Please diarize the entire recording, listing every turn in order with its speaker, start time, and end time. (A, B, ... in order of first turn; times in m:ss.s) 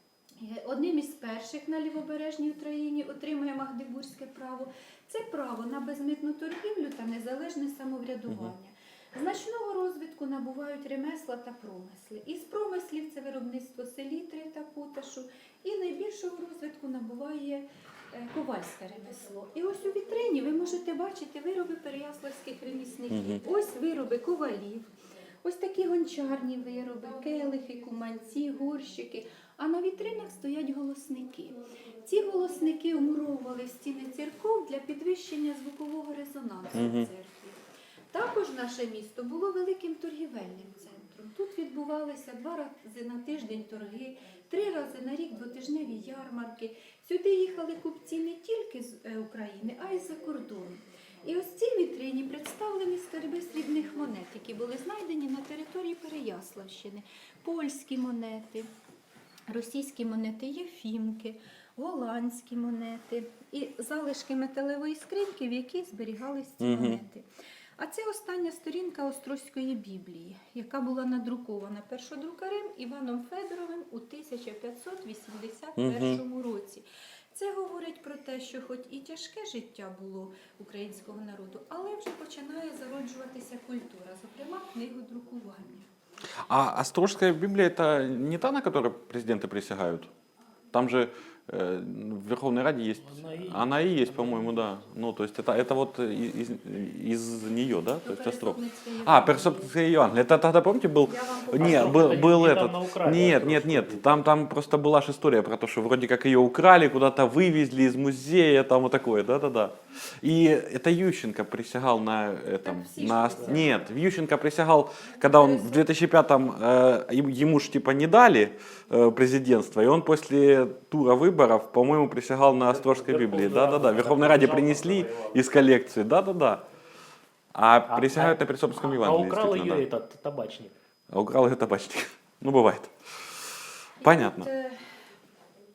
0:00.4-0:24.9 A
0:23.1-0:23.4 B
0:25.4-0:37.6 A
0:36.7-0:37.1 B
0:38.1-0:58.7 A
0:59.5-1:07.2 A
1:06.6-1:07.0 B
1:07.8-1:25.9 A
1:15.8-1:16.2 B
1:26.3-1:30.1 B
1:30.7-2:06.6 B
1:33.0-1:34.6 C
1:38.0-1:39.8 A
1:41.0-1:42.4 A
1:41.5-1:44.2 C
1:52.6-1:53.9 A
1:55.2-1:55.8 A
2:02.5-2:05.4 C
2:07.5-2:09.8 B
2:07.9-2:10.7 C
2:11.1-2:14.5 B
2:14.0-2:14.8 A